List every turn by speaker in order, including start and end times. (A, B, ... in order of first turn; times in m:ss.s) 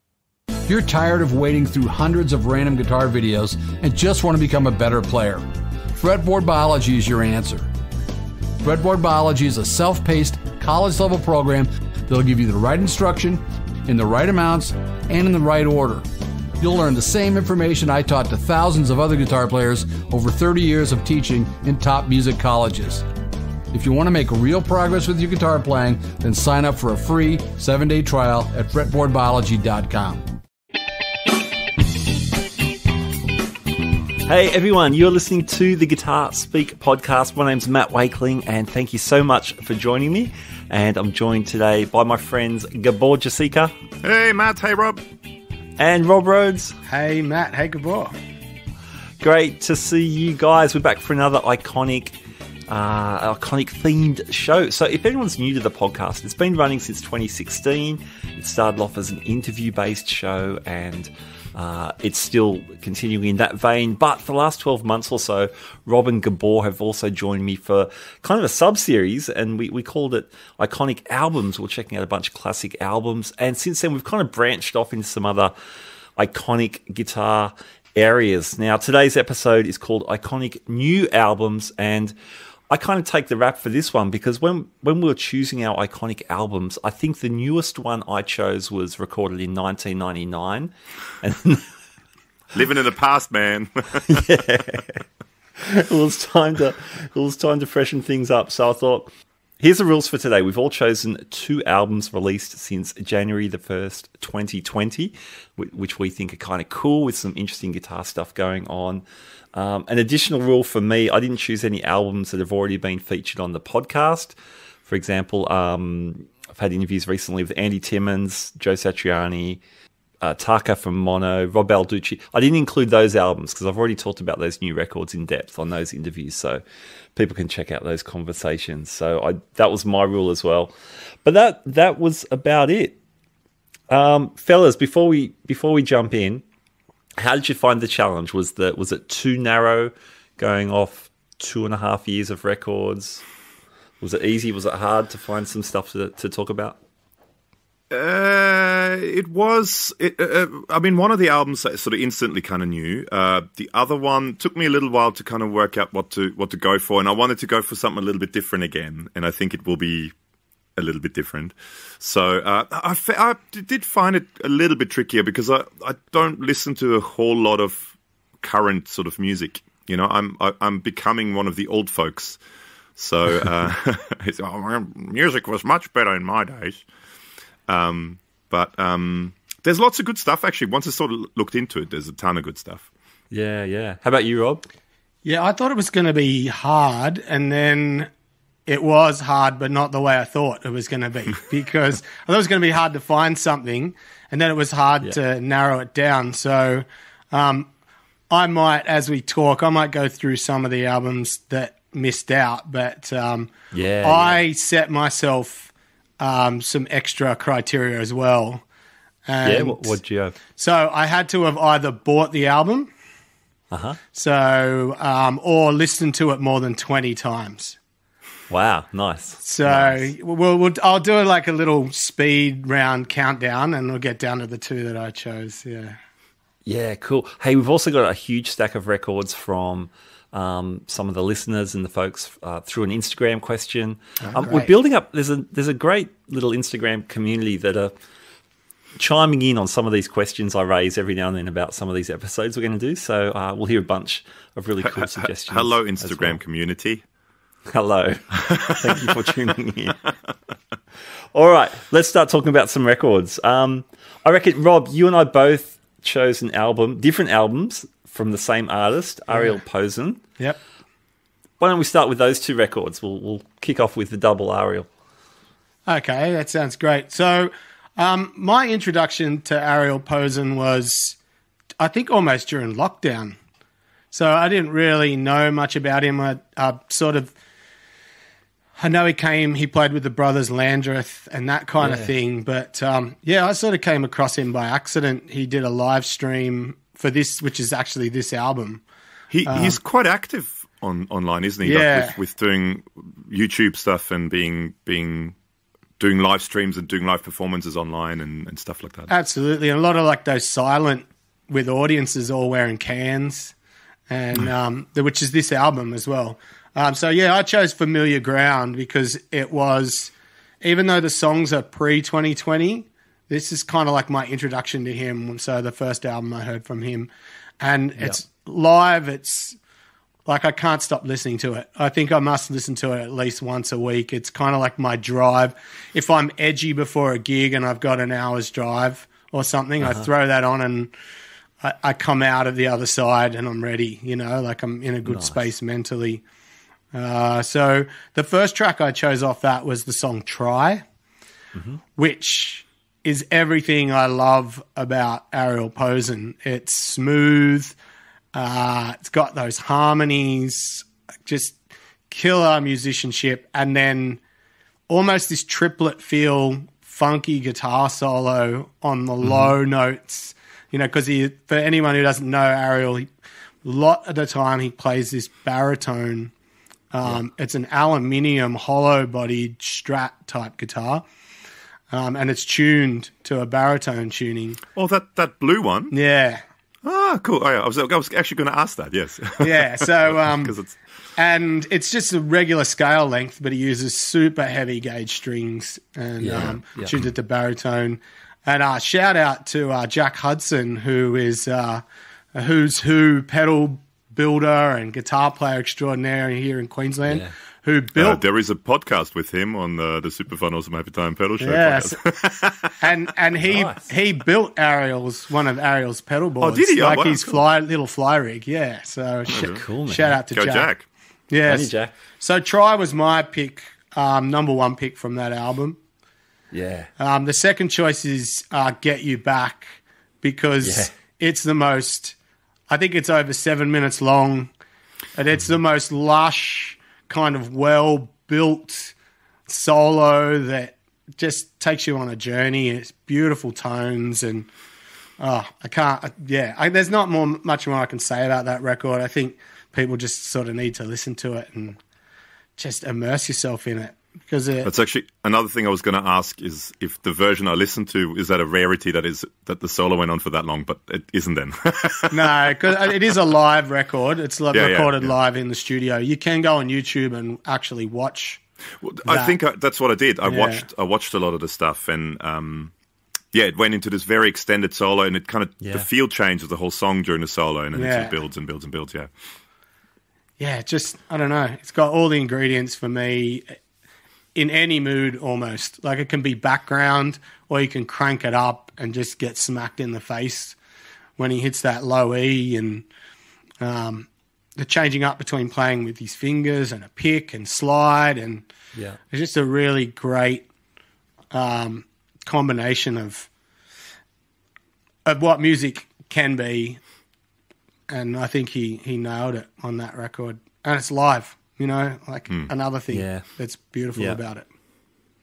0:00.6-0:05.4 A
0:06.0-0:07.7 A
0:08.6-0:16.1 A
0:16.6-0:23.1 A
0:23.7-0:30.3 A
0:34.2-0:43.7 B
0:44.0-0:45.0 C
0:45.8-0:46.7 B
0:46.9-0:48.1 D
0:49.2-0:52.2 B
0:52.7-1:15.5 B
1:16.2-1:22.1 B
1:22.7-1:31.7 B
1:32.5-1:34.2 C
1:34.1-1:35.0 B
1:35.6-1:49.0 B
1:49.5-1:54.3 B
1:54.8-1:59.6 B
2:00.2-2:06.6 B
2:07.1-2:10.7 B
2:11.2-2:13.0 B
2:13.9-2:16.4 B
2:17.2-2:23.2 B
2:24.0-2:26.8 B
2:27.9-2:40.1 C
2:40.8-2:52.4 C
2:53.0-2:56.8 C
2:57.7-3:02.9 C
3:03.3-3:04.6 B
3:05.2-3:08.1 D
3:08.7-3:17.7 D
3:18.3-3:23.5 D
3:23.7-3:24.4 B
3:24.0-3:25.7 D
3:26.2-3:28.6 D
3:29.2-3:30.0 D
3:29.4-3:30.4 B
3:30.6-3:32.9 D
3:33.7-3:34.0 B
3:34.1-3:37.8 D
3:38.5-3:40.1 B
3:39.4-3:46.0 D
3:46.6-3:57.9 B
3:54.2-3:54.7 D
3:59.0-4:06.4 B
4:04.8-4:07.0 C
4:07.7-4:10.0 B
4:11.3-4:20.2 B
4:21.6-4:24.9 B
4:25.9-4:31.2 D
4:31.8-4:33.4 D
4:34.1-4:37.3 D
4:38.8-4:48.8 D
4:41.8-4:42.1 B
4:49.3-4:55.4 C
4:49.4-4:49.8 D
4:51.6-4:52.1 D
4:56.0-4:59.1 C
4:59.1-5:03.5 D
5:04.1-5:10.1 D
5:10.6-5:17.1 D
5:17.6-5:19.6 D
5:20.2-5:30.9 D
5:29.8-5:30.1 B
5:31.6-5:36.2 D
5:35.0-5:35.5 B
5:36.9-5:40.8 D
5:41.6-5:41.8 B
5:42.0-5:47.8 D
5:48.3-5:51.6 D
5:52.1-5:54.2 D
5:54.9-6:03.1 D
5:59.2-5:59.5 B
6:03.6-6:06.3 D
6:06.9-6:11.0 D
6:11.9-6:14.6 D
6:14.7-6:15.9 C
6:15.9-6:16.4 D
6:16.8-6:20.8 C
6:19.4-6:20.6 D
6:21.2-6:38.2 D
6:26.2-6:26.9 B
6:38.0-6:42.9 C
6:41.4-6:42.0 D
6:42.8-6:50.7 D
6:43.4-6:43.8 B
6:46.4-6:47.4 C
6:49.3-6:49.6 C
6:49.3-6:50.2 B
6:50.3-6:50.8 C
6:51.3-6:55.8 D
6:51.4-6:51.9 B
6:56.5-6:56.9 B
6:57.0-7:02.2 D
7:00.6-7:00.9 B
7:02.7-7:04.5 D
7:05.1-7:08.9 D
7:09.5-7:14.5 D
7:15.2-7:21.8 D
7:22.6-7:24.7 D
7:24.6-7:32.4 C
7:32.1-7:38.4 D
7:34.5-7:35.1 C
7:38.8-7:42.7 C
7:39.1-7:39.4 D
7:40.2-7:40.6 D
7:43.3-7:49.1 C
7:45.6-7:45.9 B
7:47.7-7:48.1 D
7:50.4-7:53.6 D
7:54.3-8:00.6 D
8:01.2-8:02.8 D
8:03.6-8:08.4 D
8:09.1-8:10.5 D
8:11.3-8:13.3 D
8:15.0-8:16.8 D
8:17.9-8:24.5 D
8:22.9-8:23.2 B